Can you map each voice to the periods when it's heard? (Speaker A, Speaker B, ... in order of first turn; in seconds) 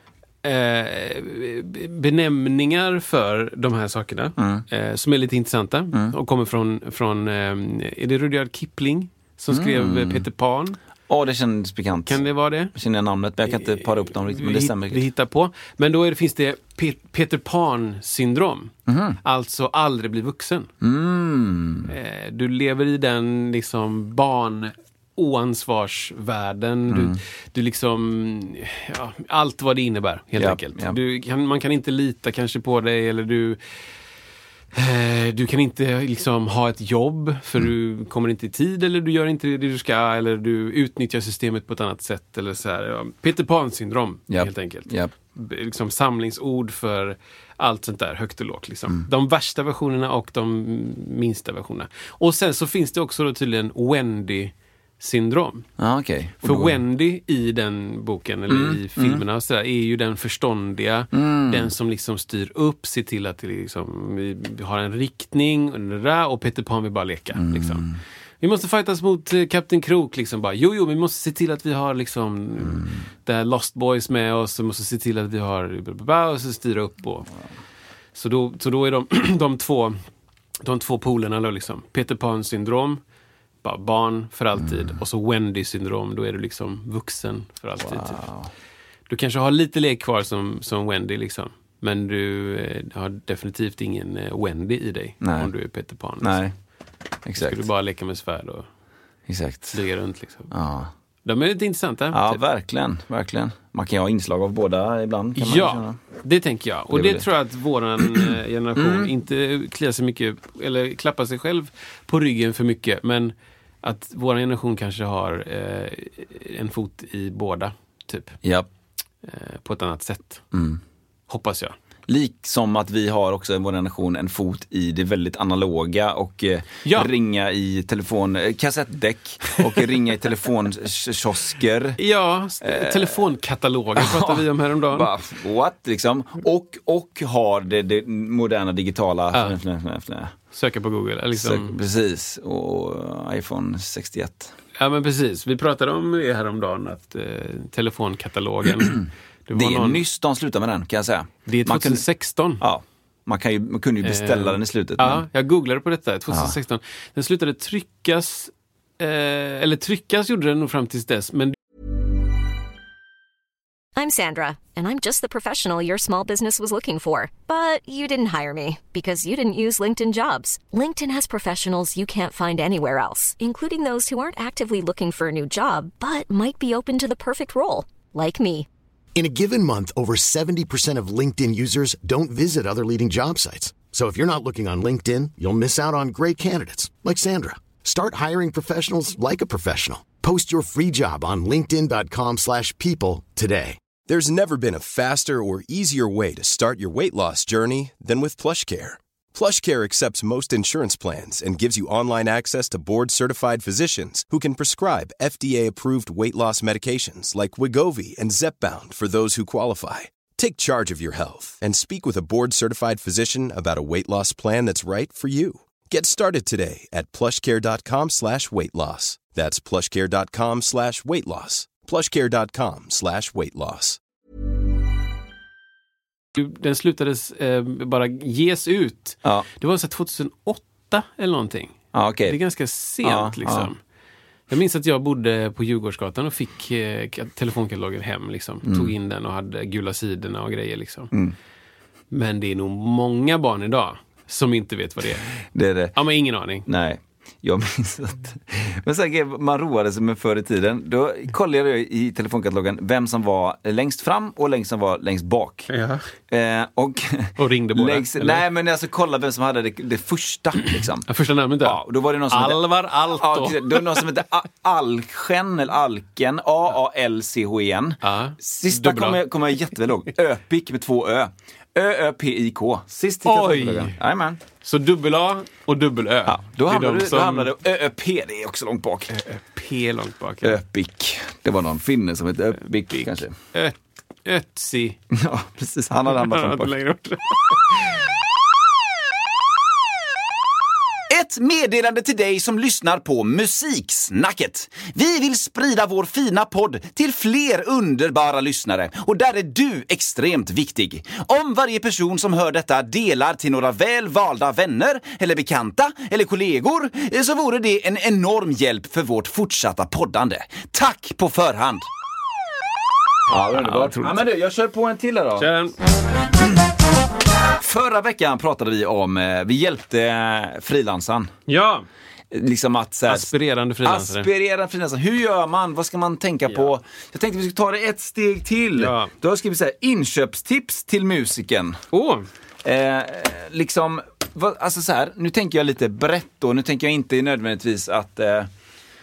Speaker A: 0.4-10.8, 12.1-12.7, 13.6-20.7, 21.9-33.6, 34.7-55.7, 56.4-67.9, 68.4-77.3, 78.2-80.0, 80.6-83.0, 83.6-88.2, 89.1-96.4, 97.4-98.7, 99.7-100.5, 101.2-102.4, 105.4-118.4, 119.2-120.5, 121.3-121.8, 126.8-127.1, 132.0-135.1, 139.3-139.6, 140.5-141.8, 144.8-150.0, 151.5-152.6, 154.0-161.6, 226.3-233.8, 234.5-241.1, 242.1-245.4, 245.9-246.7, 255.7-256.0, 257.4-258.4, 260.6-264.1, 268.0-269.2, 273.2-274.0, 274.6-277.5, 279.1-280.6, 282.9-285.0, 286.0-288.0, 313.4-314.2, 315.4-315.8, 321.5-321.9, 323.1-324.3, 328.8-329.1, 331.9-332.3
Speaker B: 4.4-4.7, 9.5-10.3, 11.1-12.2, 12.7-15.0, 18.9-19.2, 20.8-21.9, 26.9-27.2, 30.4-31.0, 44.3-45.1, 55.8-56.8, 58.5-59.2, 61.1-61.7, 67.3-68.0, 84.6-85.0, 87.8-88.5, 95.2-95.5, 96.2-96.5, 97.2-97.7, 99.3-99.8, 100.5-100.9, 102.1-106.0, 106.9-107.2, 108.0-109.1, 118.4-118.7, 120.5-120.8, 122.1-132.0, 132.6-133.2, 133.9-140.3, 141.3-144.5, 148.8-152.0, 152.6-155.2, 156.3-156.6, 231.9-232.4, 233.0-233.7, 238.6-238.9, 245.5-245.9, 246.7-255.7, 256.3-261.1, 261.6-274.4, 276.3-279.1, 280.4-283.3, 285.1-286.7, 291.1-311.9, 313.3-315.5, 317.5-321.3, 322.3-323.3, 323.8-331.8, 332.6-338.5
Speaker C: 164.0-178.7
Speaker D: 179.2-193.8
Speaker E: 194.1-224.0